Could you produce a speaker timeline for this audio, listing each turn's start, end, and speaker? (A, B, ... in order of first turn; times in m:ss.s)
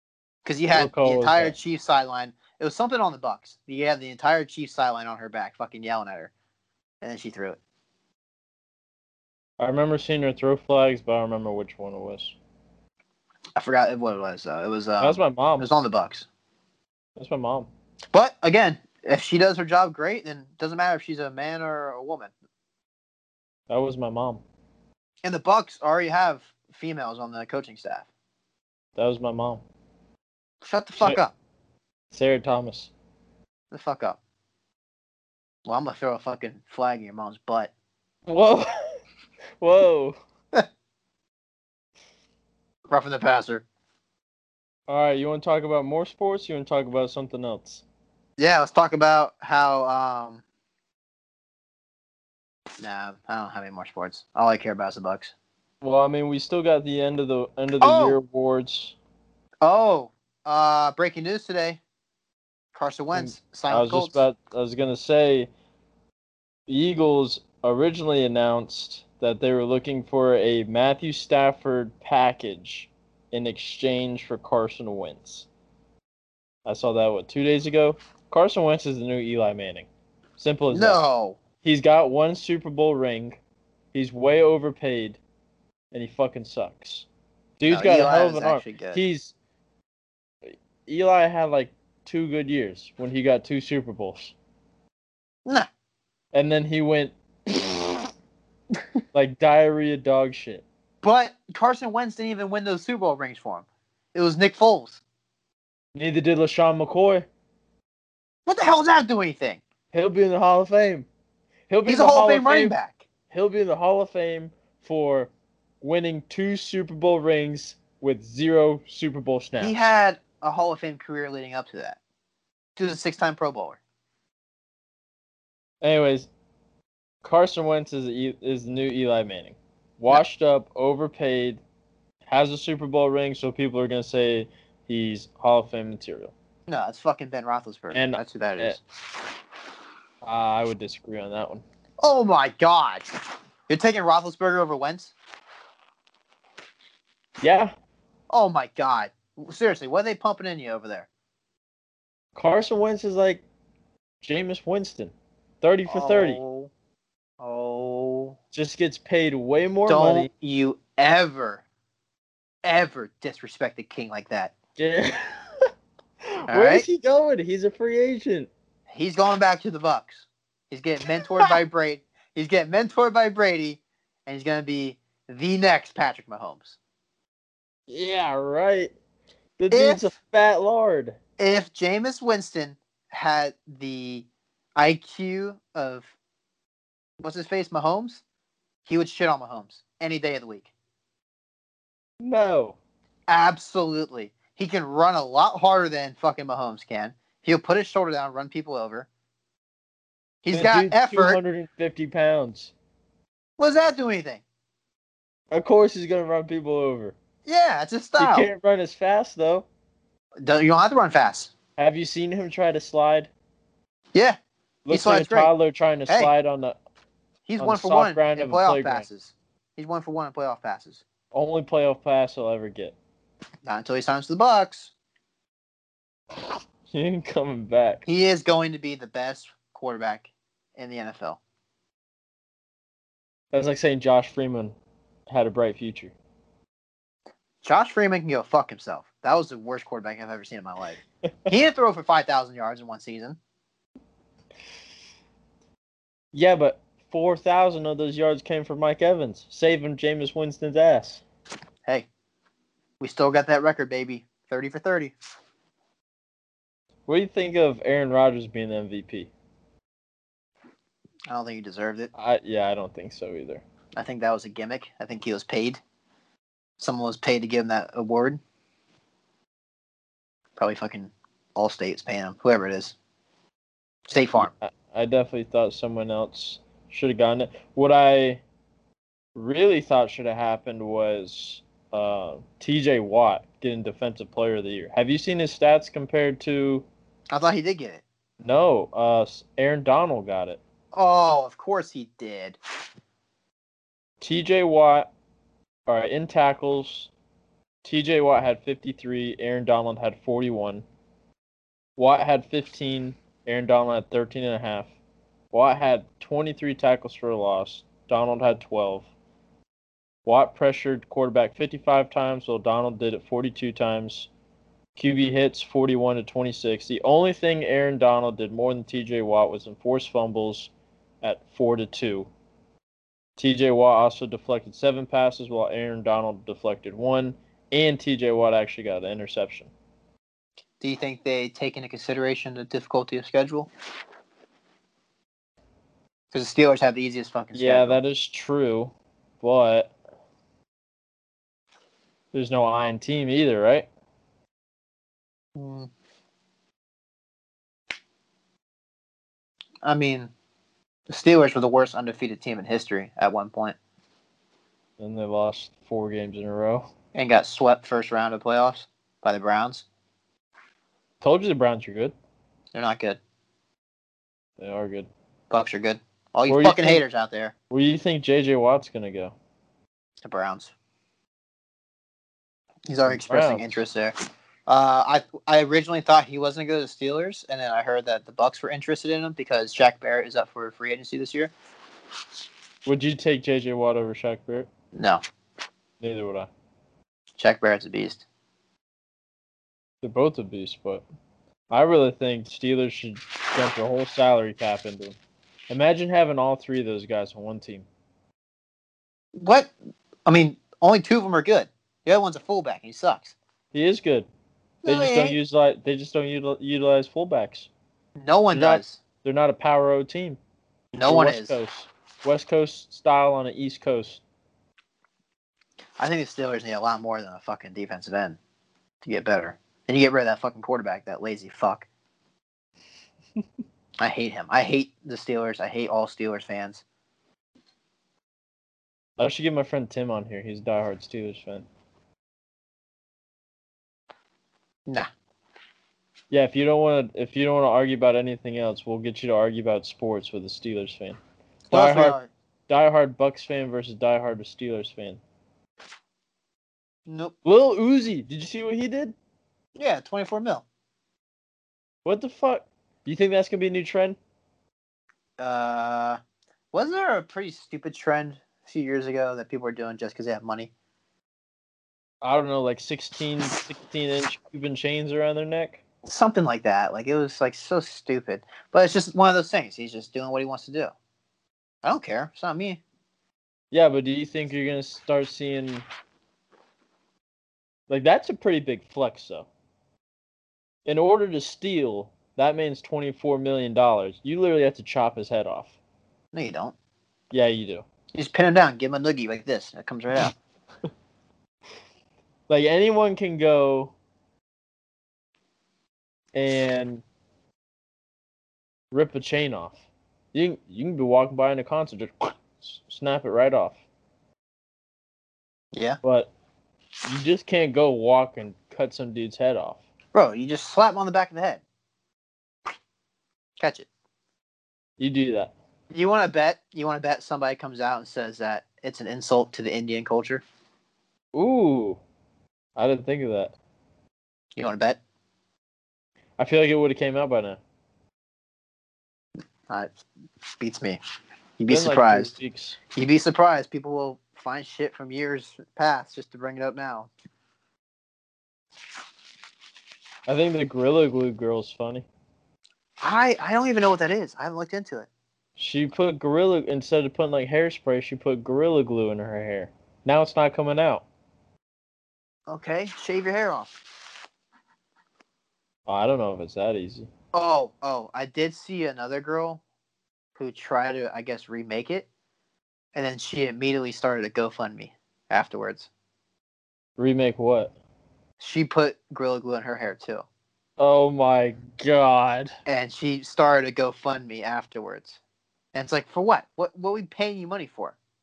0:00.4-0:06.3 A
0:00.7-0:01.6 B
0:07.0-0:07.6 A
0:09.6-0:12.4 B
0:13.6-0:16.3 A
0:15.0-0:15.7 B
0:17.2-0:17.7 B
0:18.1-0:22.3 A
0:23.7-0:24.4 B
0:25.2-0:28.1 A
0:29.0-0:29.6 B
0:30.6-0:31.3 A
0:32.1-0:32.9 B
0:33.7-0:34.2 A
0:35.7-0:37.7 A
0:38.3-0:38.7 B
0:39.6-0:40.2 B
0:42.9-0:43.6 A
0:44.9-0:47.8 B
0:48.4-0:50.4 A
0:52.8-0:55.3 A
0:55.8-0:59.0 B
0:57.8-0:58.2 A
0:59.6-1:01.8 A
1:02.7-1:04.2 A
1:03.1-1:05.5 B
1:06.7-1:15.5 B
1:16.6-1:21.0 B
1:20.7-1:21.4 A
1:21.6-1:23.4 B
1:23.9-1:25.2 B
1:25.9-1:27.1 B
1:27.6-1:29.3 B
1:27.7-1:29.0 A
1:30.5-1:34.4 B
1:36.3-1:38.1 B
1:39.1-1:40.6 B
1:41.0-1:45.0 A
1:46.0-1:47.3 B
1:48.5-1:49.6 A
1:49.9-1:51.1 B
1:51.7-1:52.8 B
1:51.9-1:53.0 A
1:53.3-1:59.8 B
1:59.6-2:02.0 A
2:02.8-2:03.8 A
2:05.8-2:06.3 B
2:07.2-2:11.6 B
2:12.3-2:16.3 B
2:16.7-2:18.8 A
2:17.9-2:18.8 B
2:20.2-2:21.6 B
2:22.0-2:23.0 A
2:23.7-2:25.2 A
2:27.4-2:27.7 B
2:28.3-2:31.1 A
2:32.4-2:33.4 B
2:34.2-2:36.4 B
2:35.9-2:36.7 A
2:37.4-2:38.4 A
2:38.5-2:40.3 B
2:39.9-2:41.6 A
2:42.6-2:44.5 A
2:44.8-2:45.7 B
2:46.4-2:48.5 B
2:46.5-2:46.9 A
2:48.9-2:56.8 A
2:51.1-2:51.6 B
2:57.9-2:58.9 B
2:59.6-3:01.2 B
2:59.7-3:00.1 A
3:01.4-3:06.1 A
3:07.2-3:08.2 A
3:08.9-3:10.7 A
3:12.2-3:12.8 B
3:13.3-3:19.1 A
3:20.4-3:21.4 A
3:20.5-3:22.7 B
3:23.6-3:24.4 A
3:25.5-3:27.2 B
3:27.5-3:28.5 A
3:28.2-3:29.7 B
3:30.4-3:31.5 A
3:31.8-3:33.3 B
3:34.9-3:36.8 B
3:34.9-3:35.5 A
3:37.5-3:41.0 A
3:37.6-3:39.1 B
3:41.3-3:43.0 B
3:43.6-3:44.9 A
3:46.9-3:48.0 B
3:48.1-3:51.4 A
3:53.5-3:54.8 B
3:55.3-3:56.1 B
3:57.6-4:03.4 A
4:06.3-4:11.2 B
4:13.0-4:15.1 A
4:17.1-4:19.3 B
4:21.3-4:22.1 A
4:22.1-4:23.6 B
4:24.0-4:25.8 A
4:26.8-4:28.4 A
4:30.6-4:33.0 A
4:34.1-4:34.5 A
4:34.4-4:38.4 B
4:39.4-4:46.9 B
4:47.3-4:48.0 A
4:48.4-4:50.6 B
4:50.9-4:52.6 A
4:54.2-4:55.1 B
4:55.9-4:57.1 B
4:57.8-5:00.8 B
5:02.0-5:04.9 B
5:05.5-5:09.1 B
5:10.2-5:14.3 B
5:15.0-5:20.7 B
5:21.2-5:22.3 B
5:23.4-5:29.7 B
5:30.8-5:33.7 A
5:36.3-5:38.0 A
5:37.5-5:39.9 B
5:42.3-5:43.9 B
5:45.6-5:45.9 A
5:49.8-5:50.3 A
5:51.1-5:53.8 A
5:55.0-5:56.9 B
5:57.2-5:59.8 A
6:01.2-6:02.1 B
6:02.7-6:03.2 A
6:04.6-6:05.1 B
6:05.5-6:07.5 A
6:06.5-6:07.0 B
6:07.7-6:09.3 B
6:10.2-6:10.7 A
6:12.9-6:14.2 A
6:13.1-6:13.7 B
6:14.7-6:21.5 A
6:22.9-6:24.7 B
6:24.9-6:25.2 A
6:26.0-6:26.5 B
6:27.4-6:28.2 A
6:30.0-6:31.0 B
6:31.7-6:35.2 B
6:35.7-6:37.9 B
6:39.4-6:39.7 A
6:40.2-6:43.4 A
6:43.7-6:44.3 B
6:44.8-6:45.4 A
6:44.8-6:47.7 B
6:48.2-6:49.0 A
6:48.5-6:50.4 B
6:50.9-6:51.6 A
6:51.0-6:54.2 B
6:56.0-6:58.4 A
6:59.0-7:01.9 A
7:04.0-7:06.8 A
7:09.2-7:11.7 B
7:16.3-7:21.2 B
7:21.7-7:22.2 B
7:21.7-7:22.3 A
7:22.7-7:25.2 B
7:27.1-7:27.4 A
7:27.4-7:29.2 B
7:29.8-7:30.6 A
7:32.0-7:34.2 B
7:35.4-7:36.2 A
7:36.7-7:40.7 A
7:42.2-7:45.8 B
7:46.0-7:50.9 A
7:51.8-7:52.8 A
7:53.7-7:55.8 B
7:57.9-7:59.5 B
8:00.9-8:05.8 B
8:06.3-8:06.8 A
8:07.3-8:07.8 B
8:08.1-8:10.3 A
8:12.5-8:13.9 B
8:16.4-8:17.0 B
8:18.9-8:23.8 B
8:25.7-8:26.0 A
8:26.0-8:26.3 B
8:27.0-8:29.8 B
8:30.1-8:31.6 A
8:33.6-8:33.9 A
8:35.0-8:35.5 B
8:35.9-8:40.4 A
8:41.3-8:42.0 B
8:42.8-8:43.5 B
8:44.6-8:45.0 A
8:46.4-8:47.6 B
8:50.6-8:51.0 A
8:51.6-8:52.3 A
8:51.7-8:52.8 B
8:53.0-8:57.1 A
9:00.3-9:02.1 B
9:03.0-9:05.1 A
9:05.6-9:11.0 B
9:12.5-9:13.8 A
9:15.9-9:17.1 B
9:17.3-9:19.6 A
9:20.4-9:22.1 A
9:22.9-9:25.9 A
9:27.0-9:27.7 B
9:28.4-9:30.3 A
9:30.8-9:32.5 B
9:32.7-9:35.2 A
9:35.7-9:38.0 A